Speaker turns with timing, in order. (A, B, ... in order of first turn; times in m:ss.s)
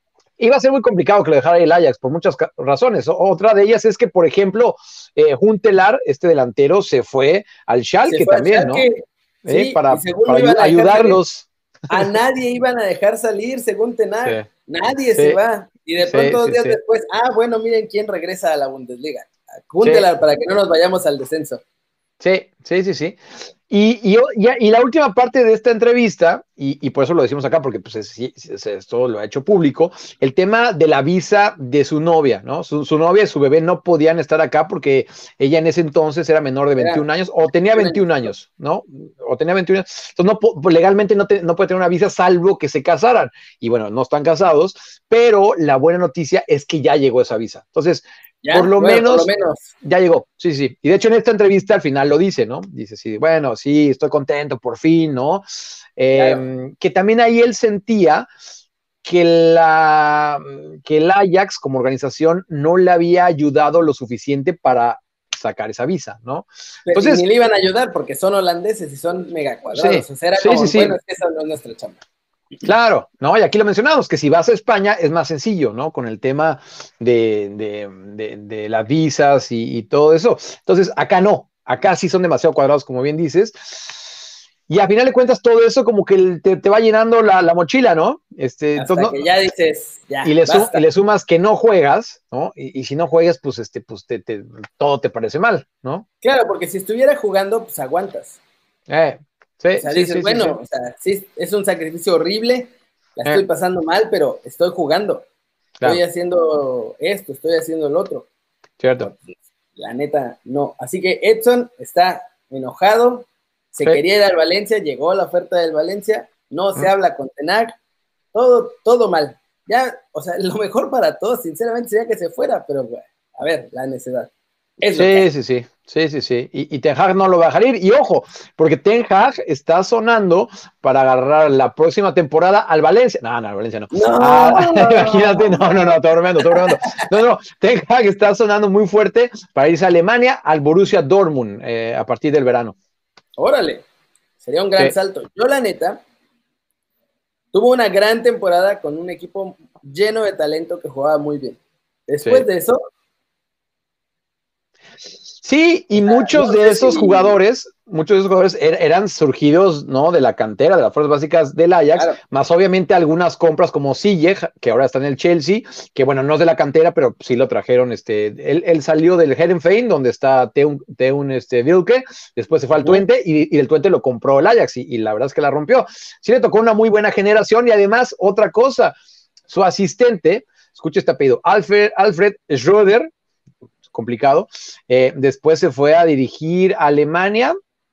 0:00.4-0:08.9 A
0:08.1-0:11.2 B
0:09.5-0:12.1 A
0:11.9-0:21.6 B
0:16.0-0:16.8 A
0:19.8-0:20.1 A
0:22.2-0:49.3 A
0:36.8-0:37.0 B
0:37.7-0:38.2 B
0:48.4-0:49.6 B
0:49.8-0:58.3 A
0:56.1-0:56.5 B
0:59.0-1:07.2 A
1:06.9-1:12.0 B
1:09.7-1:11.0 A
1:12.6-1:24.1 A
1:24.7-1:29.2 A
1:28.8-1:30.8 B
1:30.2-1:36.0 A
1:36.2-1:38.4 B
1:38.9-1:40.6 A
1:39.8-1:45.3 B
1:45.8-1:48.3 B
1:48.8-1:49.1 A
1:49.8-1:57.8 B
1:58.3-2:05.3 B
2:04.9-2:22.8 A
2:13.9-2:16.0 B
2:16.5-2:17.0 B
2:23.4-2:23.8 B
2:24.4-2:26.0 B
2:27.5-2:32.8 B
2:35.4-2:59.0 A
2:36.0-2:37.4 B
2:59.5-3:03.1 A
3:03.9-3:07.6 A